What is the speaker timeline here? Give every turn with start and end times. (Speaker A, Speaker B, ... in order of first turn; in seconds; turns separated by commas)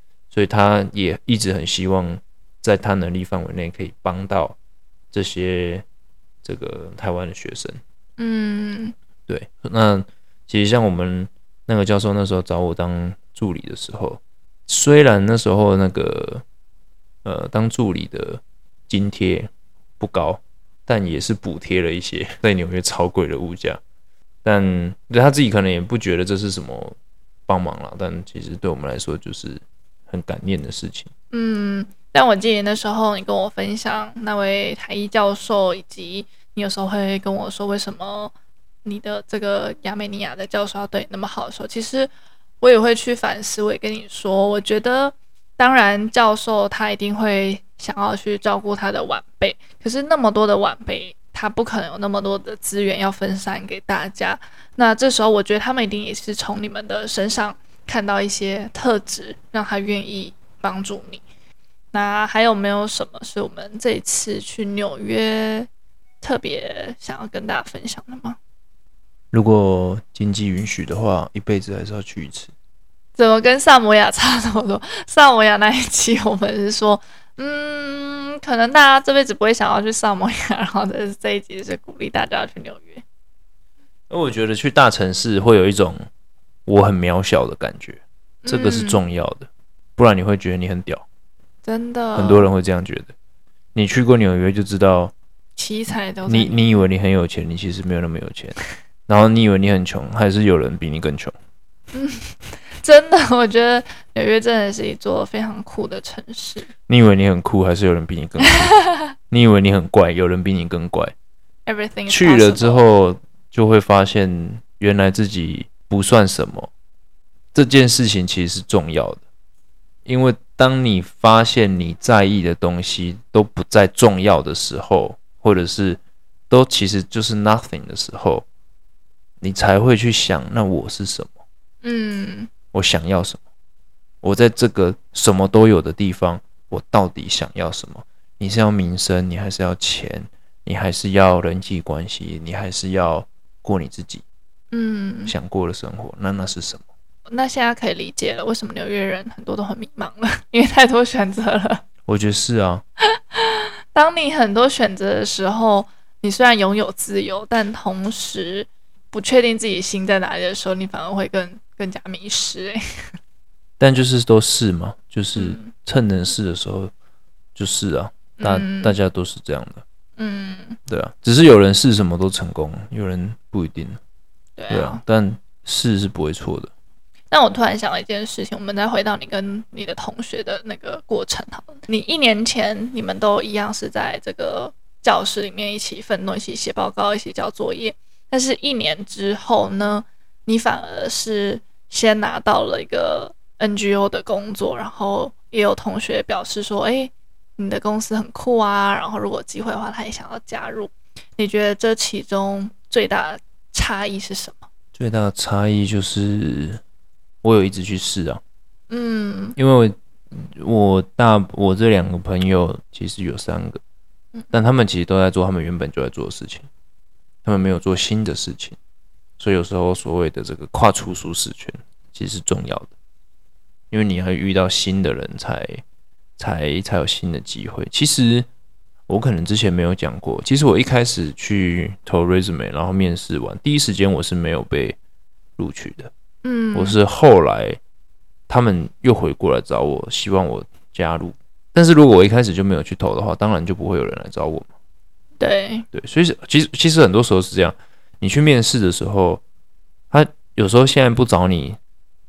Speaker A: 0.3-4.6, Speaker A: 5.1-5.8, Speaker A: 6.4-7.8, Speaker B: 8.2-8.9, Speaker A: 9.3-16.4, Speaker A: 17.2-23.8, Speaker A: 24.4-27.0, Speaker A: 27.5-31.1, Speaker B: 31.3-38.3, Speaker B: 38.9-42.1, Speaker B: 42.6-61.2, Speaker B: 61.9-65.7, Speaker B: 66.2-68.4, Speaker A: 69.3-72.5, Speaker B: 73.2-83.0, Speaker A: 84.1-86.1, Speaker A: 86.7-91.1, Speaker B: 88.5-89.0, Speaker B: 91.6-92.5, Speaker A: 92.2-93.1, Speaker A: 93.8-95.1, Speaker B: 95.6-96.8, Speaker A: 96.3-101.3, Speaker B: 101.9-106.7, Speaker A: 106.9-111.1, Speaker B: 108.8-109.0, Speaker B: 111.7-112.8, Speaker A: 112.1-116.7, Speaker A: 117.5-119.2, Speaker A: 120.1-128.5, Speaker A: 129.4-131.3, Speaker B: 131.8-132.5, Speaker A: 132.7-133.4, Speaker A: 134.2-144.2, Speaker B: 144.7-145.3, Speaker A: 145.3-146.8, Speaker B: 147.3-151.8, Speaker A: 152.1-152.8, Speaker B: 153.4-163.2, Speaker A: 163.8-166.9, Speaker B: 165.4-165.7, Speaker A: 167.6-169.8, Speaker B: 168.4-169.0, Speaker B: 170.2-170.8, Speaker A: 170.9-174.0, Speaker B: 174.6-175.0, Speaker A: 174.7-176.7, Speaker B: 177.3-204.7, Speaker A: 204.9-206.8, Speaker A: 207.4-208.4, Speaker B: 208.9-209.6, Speaker A: 209.6-213.8, Speaker A: 214.5-216.7, Speaker A: 217.4-218.8, Speaker A: 219.4-222.9, Speaker A: 223.9-225.8, Speaker A: 226.4-228.5, Speaker A: 229.1-235.0, Speaker A: 235.6-236.1, Speaker B: 236.4-237.0, Speaker A: 236.7-237.8, Speaker A: 238.5-244.7, Speaker B: 245.4-245.9, Speaker A: 245.9-249.4, Speaker A: 250.1-251.8